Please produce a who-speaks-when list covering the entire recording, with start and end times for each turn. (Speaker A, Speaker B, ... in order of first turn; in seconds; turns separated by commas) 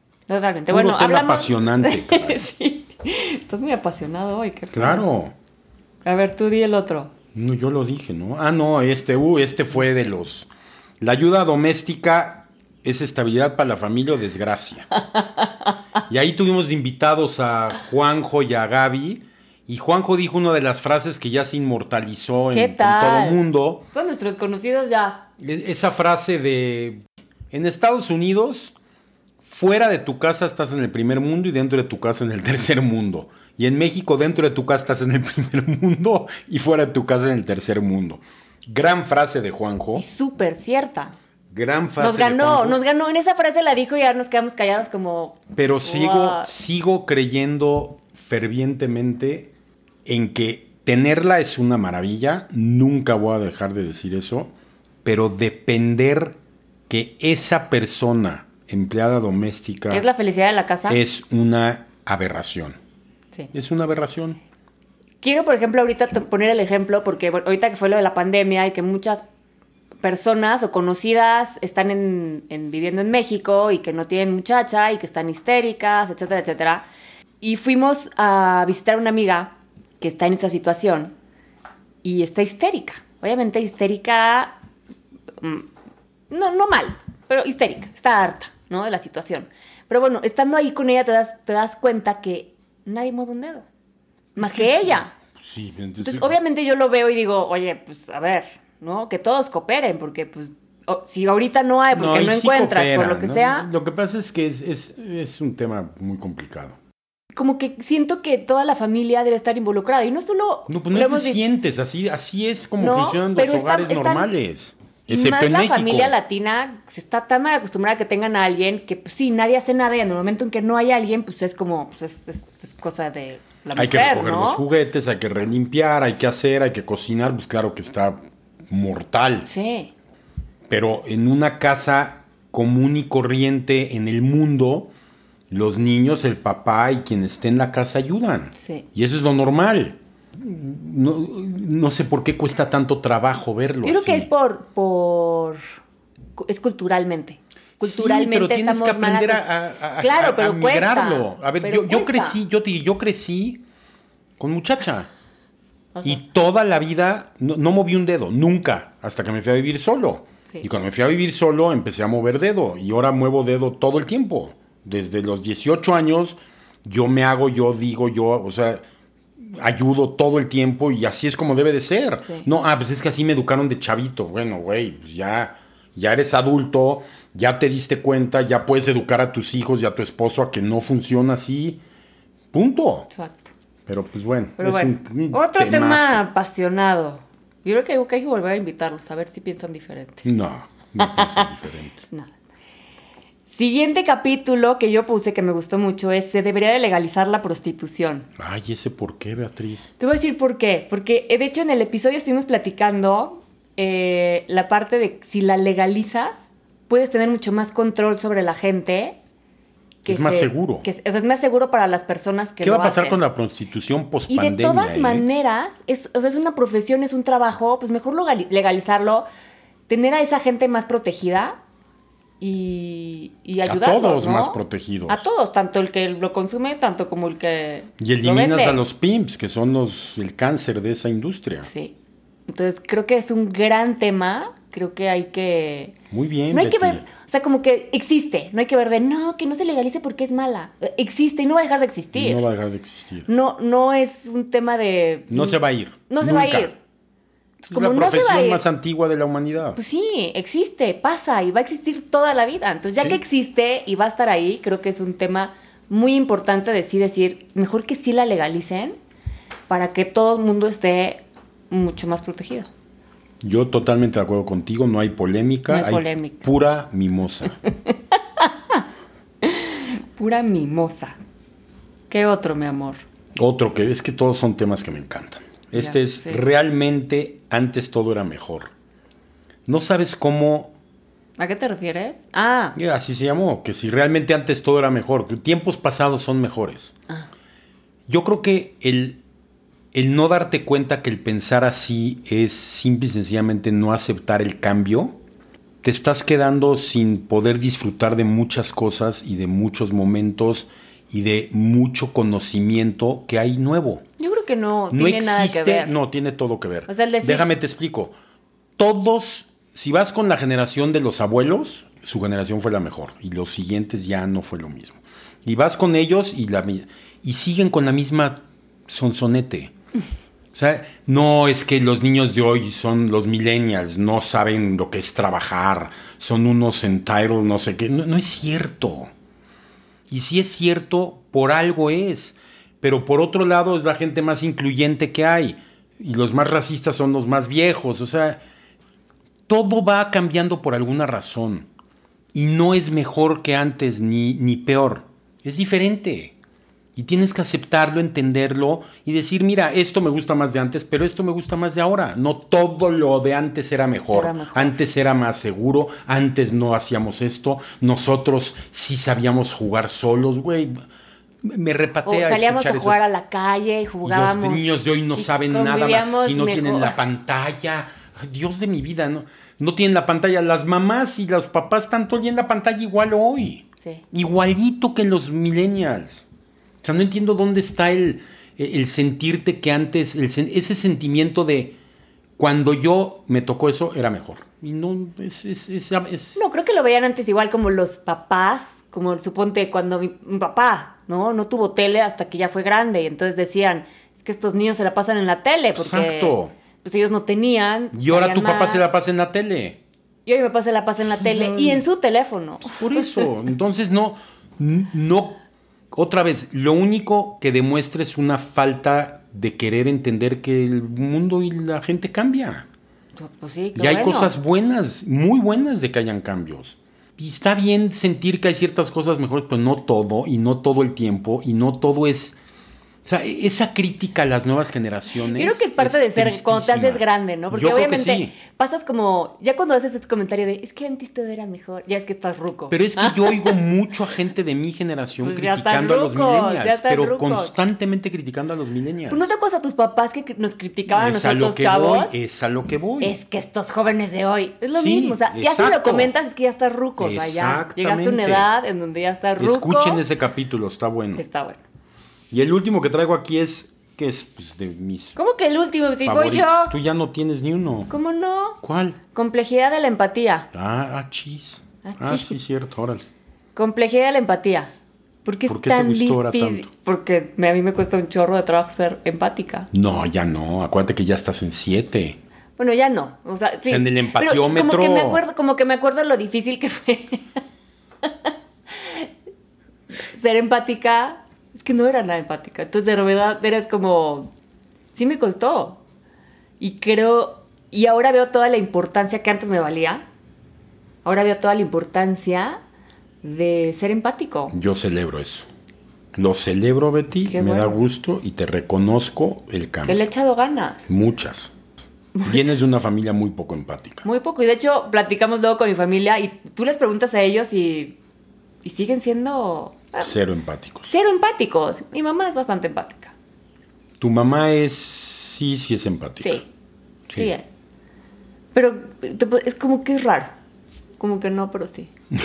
Speaker A: 0.3-5.0, Speaker B: 0.7-2.4, Speaker B: 4.7-5.3, Speaker A: 6.0-7.1, Speaker B: 7.3-10.5, Speaker B: 11.0-14.9, Speaker A: 14.9-15.8, Speaker B: 16.1-23.8, Speaker A: 22.5-23.4, Speaker A: 23.9-25.2, Speaker B: 25.4-28.8, Speaker B: 29.4-40.0, Speaker A: 39.9-41.1, Speaker B: 41.5-42.8, Speaker A: 42.0-46.5, Speaker B: 45.5-49.5, Speaker B: 50.0-54.5, Speaker B: 55.0-56.4, Speaker B: 56.9-60.0, Speaker A: 59.9-61.0, Speaker B: 60.9-62.8, Speaker B: 63.5-64.4, Speaker A: 65.2-69.2, Speaker A: 70.0-76.8, Speaker A: 77.4-81.1, Speaker A: 82.0-84.5, Speaker A: 85.4-85.7, Speaker A: 86.3-93.7, Speaker B: 94.4-96.4, Speaker A: 94.4-95.1, Speaker A: 96.0-103.7, Speaker B: 101.9-106.8, Speaker A: 107.3-111.4, Speaker B: 110.7-116.1, Speaker A: 112.8-114.3, Speaker A: 115.1-124.6, Speaker B: 123.8-128.2, Speaker B: 128.7-129.5, Speaker A: 129.4-129.9, Speaker B: 130.7-134.9, Speaker B: 135.5-144.3, Speaker A: 138.6-138.8, Speaker A: 143.8-145.6, Speaker A: 146.4-149.4, Speaker B: 147.8-153.6, Speaker A: 150.0-152.4, Speaker B: 154.4-155.1, Speaker A: 155.9-156.2, Speaker B: 156.0-168.8, Speaker B: 169.4-181.8, Speaker B: 182.5-183.1, Speaker A: 183.1-183.5, Speaker B: 183.9-186.2, Speaker A: 184.6-190.2, Speaker B: 190.2-192.0, Speaker A: 191.0-191.5, Speaker A: 193.5-198.3, Speaker B: 198.4-199.9, Speaker A: 200.0-209.2, Speaker A: 210.0-213.2, Speaker B: 210.0-210.9, Speaker B: 212.6-215.3, Speaker A: 214.3-219.3, Speaker A: 219.9-221.6, Speaker A: 222.4-228.8, Speaker B: 223.6-225.3, Speaker B: 228.0-231.7, Speaker A: 231.7-231.9, Speaker A: 232.5-235.9, Speaker B: 236.1-237.0, Speaker A: 236.5-242.4, Speaker B: 242.1-243.3, Speaker A: 243.3-246.8, Speaker B: 245.3-246.7, Speaker A: 247.6-248.6, Speaker B: 247.7-249.8, Speaker A: 249.8-259.0, Speaker A: 259.7-262.7, Speaker B: 263.4-267.6, Speaker A: 265.7-266.5, Speaker A: 267.7-268.8, Speaker A: 269.4-271.2, Speaker A: 272.1-273.0, Speaker B: 273.4-278.7, Speaker A: 275.8-276.4, Speaker B: 279.6-280.7, Speaker A: 281.4-282.8, Speaker B: 282.8-286.9, Speaker B: 288.1-289.2, Speaker B: 289.9-295.1, Speaker B: 295.8-304.0, Speaker A: 304.2-305.9, Speaker B: 304.9-308.1, Speaker A: 306.9-307.5, Speaker B: 308.8-319.7, Speaker B: 320.5-329.1, Speaker B: 330.1-338.4, Speaker B: 339.5-341.7, Speaker B: 342.3-346.3, Speaker B: 347.0-360.8, Speaker A: 354.1-354.7, Speaker B: 361.4-363.0, Speaker A: 362.0-364.6, Speaker B: 364.0-376.3, Speaker A: 365.1-367.0, Speaker B: 376.8-381.8, Speaker B: 382.4-386.4, Speaker A: 386.3-398.8, Speaker B: 395.8-396.5, Speaker B: 397.9-399.8, Speaker A: 400.2-403.3, Speaker B: 401.1-401.8, Speaker B: 402.6-412.6, Speaker A: 413.2-414.3, Speaker B: 413.8-422.4, Speaker B: 423.0-428.3, Speaker A: 425.2-433.6, Speaker B: 432.7-439.3, Speaker A: 435.2-437.5, Speaker A: 439.1-442.1, Speaker B: 440.9-443.1, Speaker A: 443.0-450.0, Speaker B: 444.7-446.1, Speaker B: 447.0-448.5, Speaker B: 449.4-451.2, Speaker A: 451.1-451.6, Speaker B: 452.3-455.2, Speaker A: 455.1-456.8, Speaker B: 456.0-457.9, Speaker A: 457.9-458.6, Speaker B: 458.6-459.0, Speaker A: 459.1-460.5, Speaker B: 460.5-463.0, Speaker A: 461.8-462.4, Speaker A: 463.6-464.7, Speaker A: 465.2-469.7, Speaker B: 465.5-466.7, Speaker B: 469.7-472.2, Speaker A: 472.6-477.4, Speaker B: 473.6-475.2, Speaker A: 478.0-479.1, Speaker A: 480.1-484.3, Speaker A: 484.9-485.8, Speaker A: 486.6-490.0, Speaker A: 491.0-492.6, Speaker A: 493.2-494.5, Speaker B: 494.5-495.5, Speaker B: 496.1-500.0, Speaker A: 497.2-497.8, Speaker A: 499.8-500.9, Speaker B: 500.9-501.6, Speaker A: 502.1-502.5, Speaker B: 502.2-504.0, Speaker A: 504.0-508.0, Speaker A: 508.6-510.1, Speaker B: 510.0-510.9, Speaker A: 510.9-513.1, Speaker B: 514.0-516.4, Speaker A: 516.2-516.5, Speaker A: 517.1-517.5, Speaker A: 518.5-520.3, Speaker A: 521.0-521.9